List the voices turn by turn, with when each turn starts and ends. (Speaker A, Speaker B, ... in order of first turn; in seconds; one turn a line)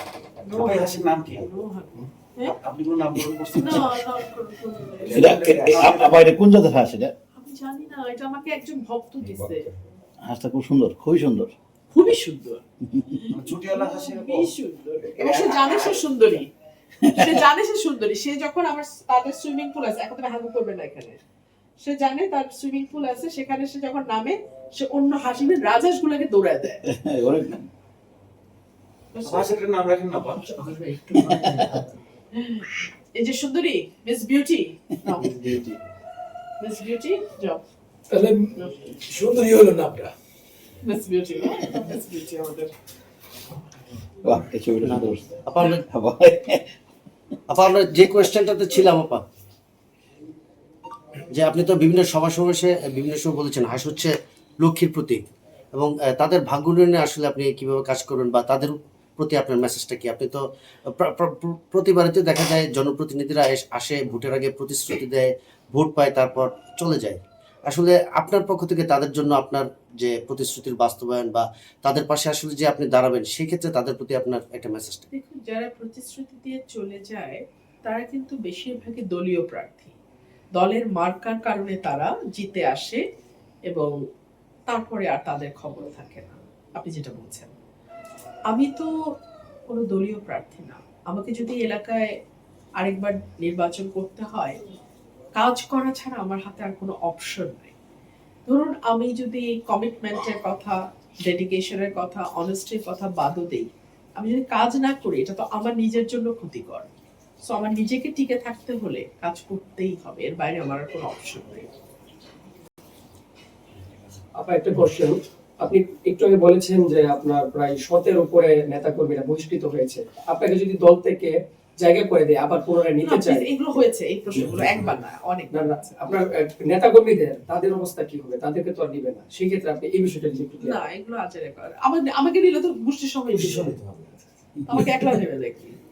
Speaker A: 0.4-2.5
Speaker B: 0.5-1.5
Speaker B: 2.5-4.0
Speaker A: 3.5-5.7
Speaker B: 5.0-6.2
Speaker C: 5.1-7.1
Speaker A: 7.3-9.7
Speaker C: 10.2-11.5
Speaker A: 11.9-16.5
Speaker B: 13.3-16.1
Speaker A: 17.0-21.2
Speaker C: 17.0-17.4
Speaker A: 21.8-26.8
Speaker C: 26.9-27.7
Speaker A: 29.1-29.5
Speaker B: 29.2-30.5
Speaker D: 30.6-31.8
Speaker A: 30.6-31.4
Speaker C: 31.2-31.7
Speaker A: 32.3-35.7
Speaker A: 36.6-37.6
Speaker D: 38.1-40.1
Speaker A: 38.5-38.9
Speaker A: 40.8-42.7
Speaker C: 44.2-46.8
Speaker E: 44.8-45.8
Speaker E: 47.5-49.2
Speaker E: 51.3-75.1
Speaker A: 75.1-80.0
Speaker A: 80.5-83.0
Speaker A: 84.7-87.5
Speaker A: 88.5-88.9
Speaker A: 89.7-92.1
Speaker A: 92.8-94.5
Speaker A: 95.3-97.7
Speaker A: 98.5-106.9
Speaker A: 107.5-111.7
Speaker F: 114.3-123.5
Speaker A: 123.0-125.7
Speaker F: 125.5-130.8
Speaker A: 130.6-133.7
Speaker D: 133.3-134.2
Speaker A: 134.7-135.8